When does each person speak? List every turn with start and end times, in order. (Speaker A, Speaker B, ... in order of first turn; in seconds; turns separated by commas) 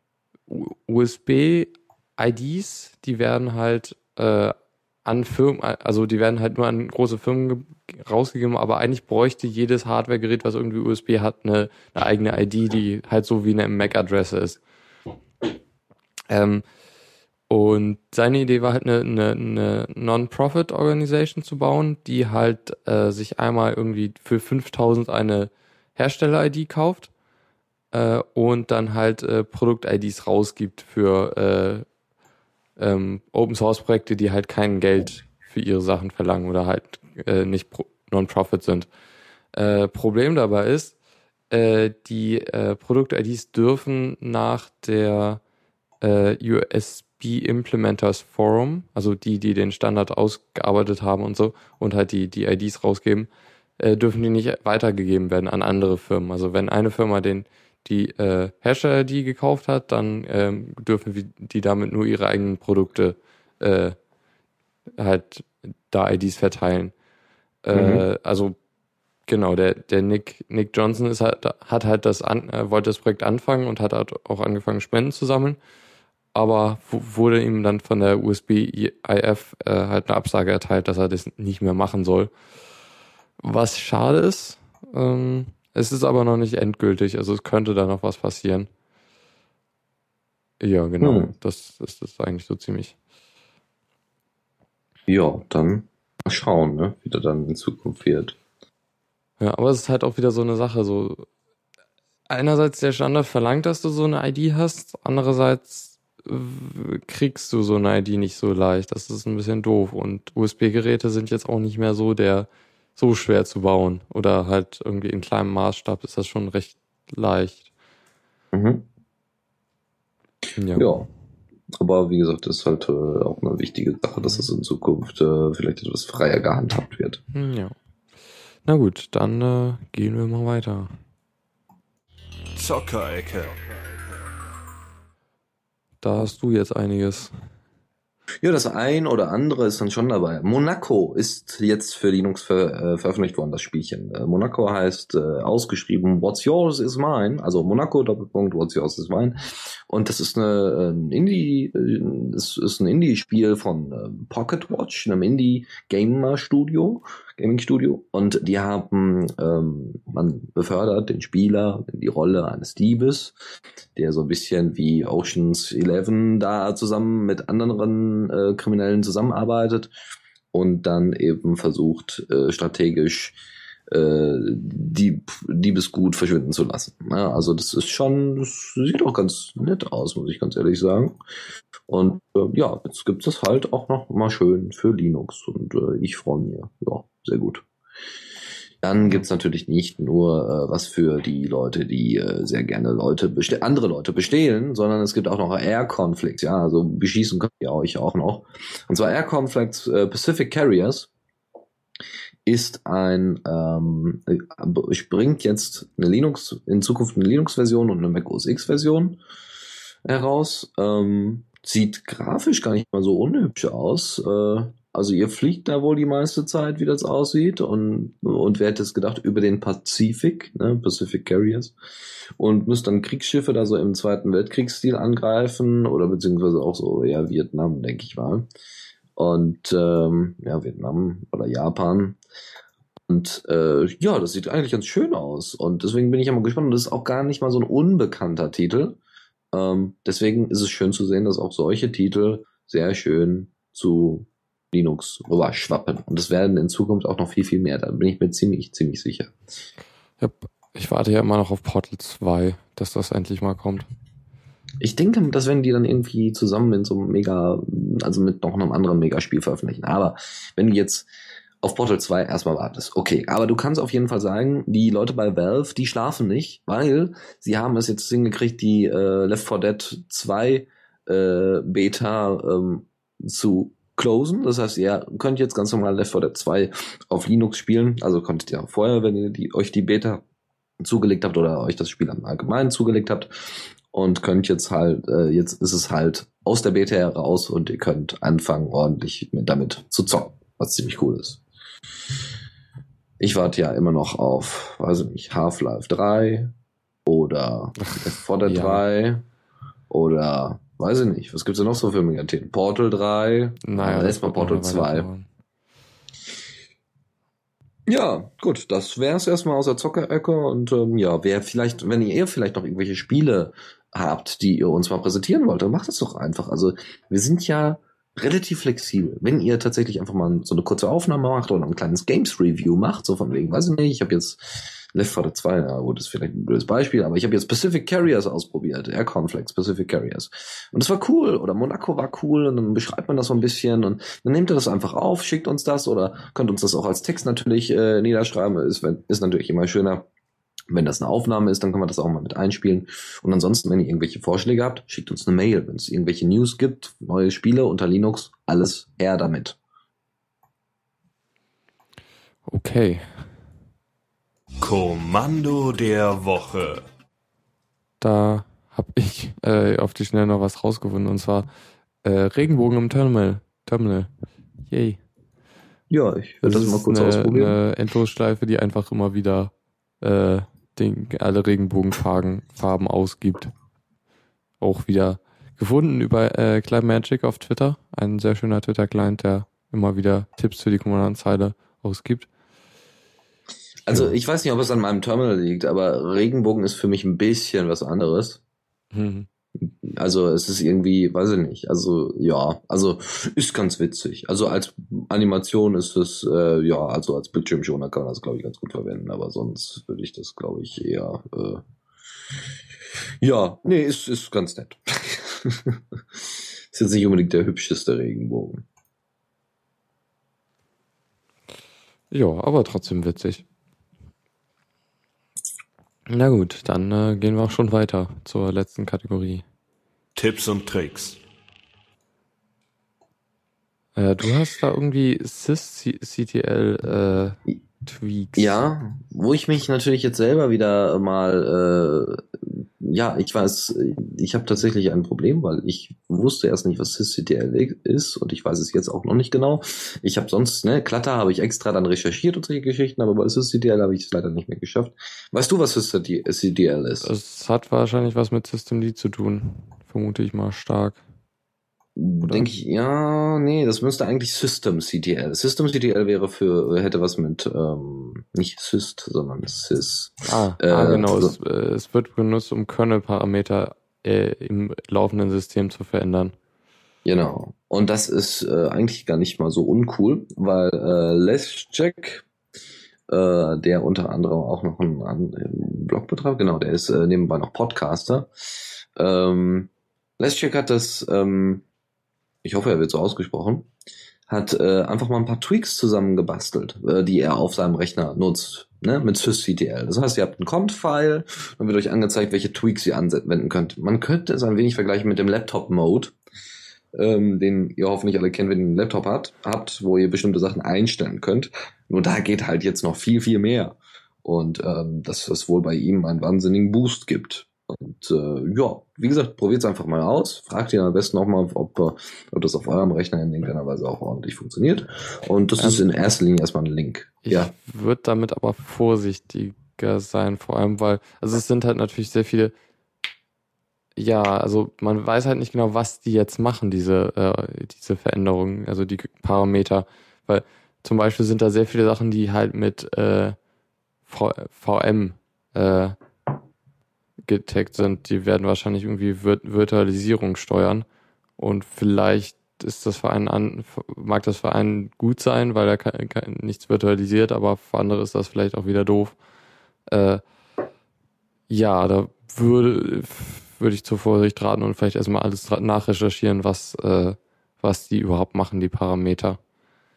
Speaker A: 0.5-14.6, Speaker A: 16.3-16.6, Speaker A: 17.5-27.1, Speaker A: 27.9-31.9, Speaker A: 32.8-38.9, Speaker A: 39.5-41.0, Speaker A: 41.5-45.4, Speaker A: 46.0-53.3, Speaker A: 53.8-64.0, Speaker A: 65.0-66.9, Speaker A: 67.7-68.6, Speaker B: 67.7-68.0, Speaker A: 69.3-75.6, Speaker A: 76.3-82.3, Speaker A: 83.4-88.7, Speaker A: 90.6-93.0, Speaker B: 91.0-91.3, Speaker B: 95.1-98.4, Speaker A: 99.4-101.3, Speaker A: 102.3-117.7, Speaker B: 118.5-118.9, Speaker A: 120.6-120.9, Speaker B: 120.8-121.1, Speaker B: 121.8-127.2, Speaker A: 127.3-127.8, Speaker A: 128.7-130.9, Speaker C: 132.6-133.8, Speaker A: 136.0-137.3, Speaker B: 138.4-163.3, Speaker B: 164.0-169.9, Speaker B: 170.5-173.4, Speaker B: 173.9-181.2, Speaker B: 181.9-187.7, Speaker B: 188.8-201.1, Speaker B: 202.5-209.2, Speaker B: 210.1-221.7, Speaker B: 222.4-228.5, Speaker B: 229.2-232.2, Speaker B: 233.1-239.0, Speaker B: 239.5-249.3, Speaker A: 250.2-253.9, Speaker B: 254.8-261.1, Speaker B: 261.6-280.2, Speaker B: 280.8-283.3, Speaker B: 283.9-291.4, Speaker B: 293.2-296.5, Speaker B: 297.1-299.3, Speaker A: 297.8-298.8, Speaker B: 299.9-305.1, Speaker A: 303.6-305.3, Speaker B: 307.9-340.1, Speaker B: 340.7-349.6, Speaker A: 352.5-353.2, Speaker C: 354.6-356.8, Speaker A: 358.0-361.5, Speaker A: 362.0-364.1, Speaker A: 364.7-365.0, Speaker B: 365.9-367.6, Speaker A: 366.4-373.5, Speaker A: 374.6-382.3, Speaker B: 383.9-388.4, Speaker A: 388.9-389.3, Speaker B: 389.6-401.6, Speaker B: 403.2-406.2, Speaker B: 406.7-408.6, Speaker A: 412.1-413.4, Speaker A: 416.1-419.4, Speaker C: 420.2-421.2, Speaker A: 424.0-428.6, Speaker B: 428.4-447.1, Speaker A: 447.0-451.0, Speaker B: 452.0-461.4, Speaker A: 452.2-452.5, Speaker A: 460.3-466.3, Speaker B: 467.1-472.3, Speaker B: 473.1-478.3, Speaker B: 479.0-481.6, Speaker B: 482.4-483.7, Speaker B: 484.3-496.1, Speaker B: 497.0-517.5, Speaker A: 515.6-515.9, Speaker A: 517.2-522.5, Speaker A: 524.0-533.4, Speaker A: 534.1-536.0, Speaker A: 537.3-540.9, Speaker A: 541.4-549.2, Speaker A: 549.9-550.2, Speaker A: 551.5-559.4